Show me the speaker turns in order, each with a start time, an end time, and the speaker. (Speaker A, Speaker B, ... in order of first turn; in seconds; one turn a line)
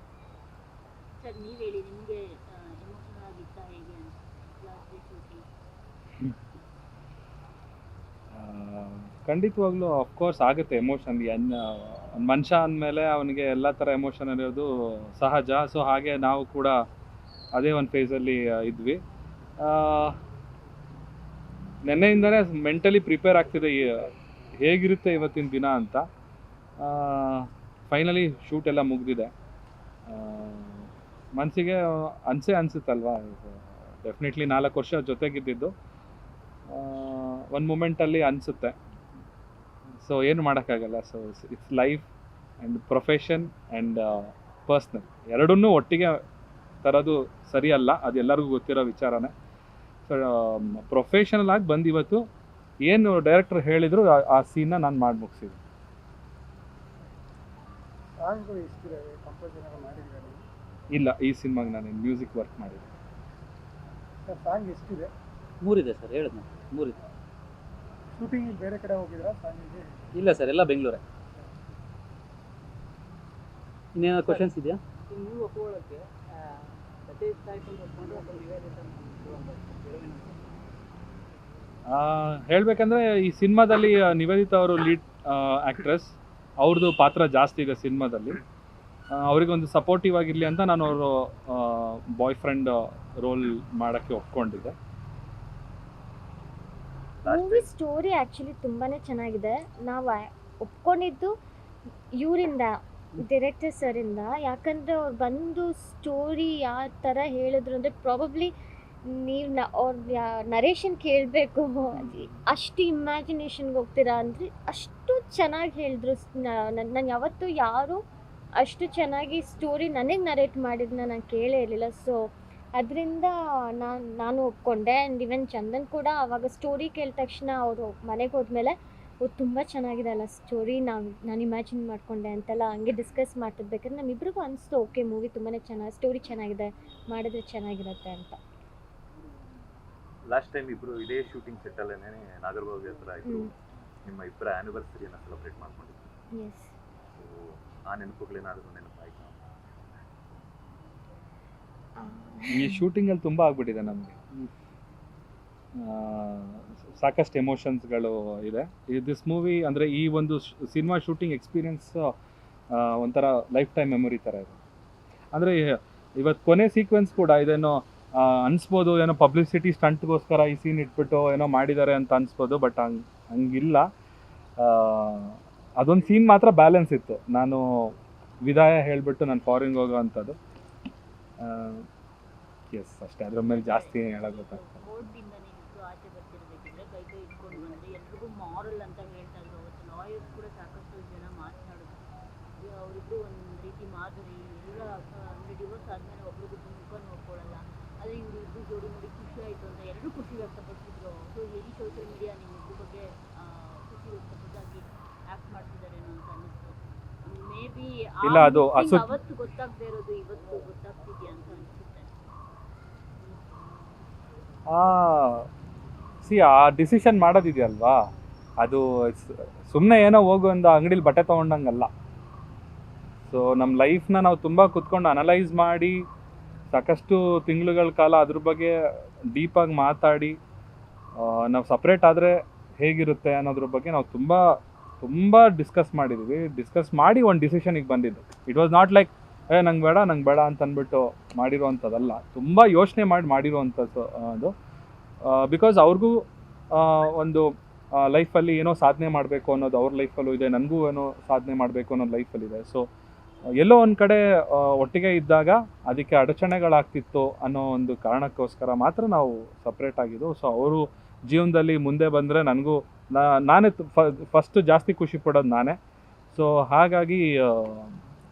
Speaker A: 1.2-5.5
Speaker B: 8.3-16.8
Speaker B: 17.5-19.0
Speaker B: 19.6-20.2
Speaker B: 21.9-26.0
Speaker B: 26.8-29.3
Speaker B: 30.1-35.7
Speaker B: 36.7-38.8
Speaker B: 40.0-42.1
Speaker B: 42.6-46.2
Speaker B: 46.8-49.3
Speaker B: 50.1-52.2
Speaker B: 52.9-55.6
Speaker C: 58.2-60.4
Speaker B: 60.9-62.9
Speaker C: 64.3-65.1
Speaker D: 65.6-67.0
Speaker C: 68.2-69.9
Speaker D: 70.2-71.0
Speaker D: 74.0-74.8
Speaker E: 74.1-74.5
Speaker E: 75.1-80.6
Speaker B: 81.9-88.4
Speaker B: 89.1-94.8
Speaker F: 97.2-97.7
Speaker G: 97.2-101.3
Speaker G: 102.2-108.5
Speaker G: 109.1-118.0
Speaker G: 118.6-138.4
Speaker F: 140.2-146.1
Speaker G: 143.2-143.5
Speaker G: 146.4-146.7
Speaker F: 147.1-149.4
Speaker G: 152.0-152.8
Speaker B: 152.5-154.2
Speaker B: 155.8-162.0
Speaker B: 162.7-164.6
Speaker B: 165.3-173.8
Speaker B: 174.6-180.4
Speaker B: 181.4-181.9
Speaker B: 182.7-185.0
Speaker A: 183.5-192.0
Speaker A: 192.6-212.1
Speaker B: 208.2-209.1
Speaker B: 214.7-215.5
Speaker B: 216.2-218.0
Speaker B: 218.6-221.9
Speaker B: 223.3-226.1
Speaker B: 226.7-228.7
Speaker B: 229.3-230.4
Speaker B: 231.2-244.5
Speaker B: 245.2-252.9
Speaker B: 253.6-265.8
Speaker B: 266.3-267.9